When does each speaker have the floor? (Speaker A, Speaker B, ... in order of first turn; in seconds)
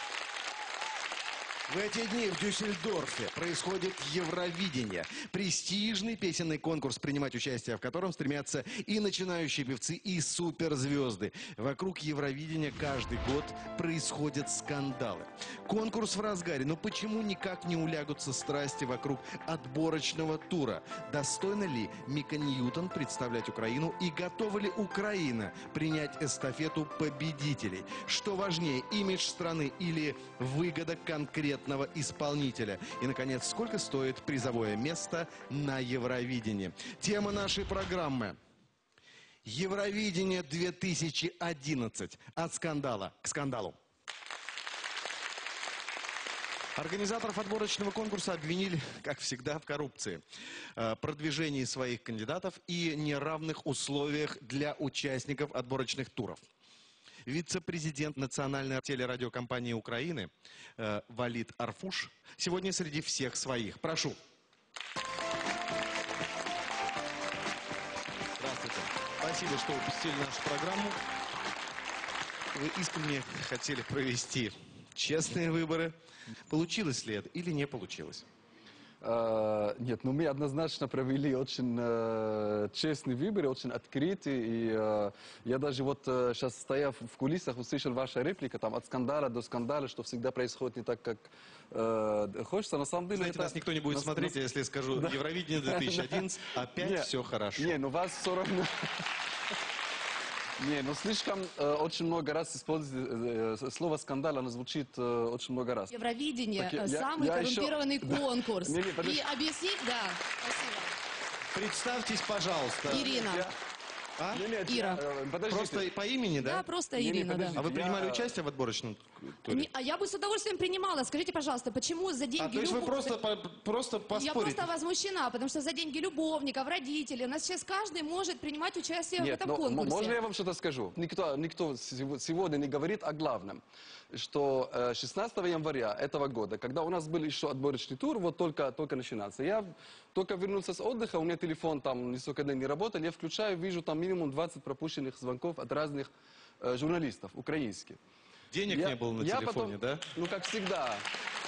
Speaker A: 1.7-38.4, 39.5-43.8, 46.8-50.2, 50.8-56.4, 57.3-64.2, 68.4-71.0, 72.5-76.0, 76.5-78.3, 93.1-97.7, 111.5-113.1, 114.2-114.5, 115.5-116.8, 117.5-119.7, 122.3-124.8, 148.5-150.0
Speaker B: 79.0-94.4, 95.0-98.9, 100.6-105.9, 106.5-109.3, 113.0-113.5, 114.3-115.9, 116.9-118.3, 129.2-148.0, 148.7-151.1
Speaker C: 105.9-110.2, 112.8-113.5, 114.5-115.0, 116.4-117.6, 119.5-123.2, 124.1-130.2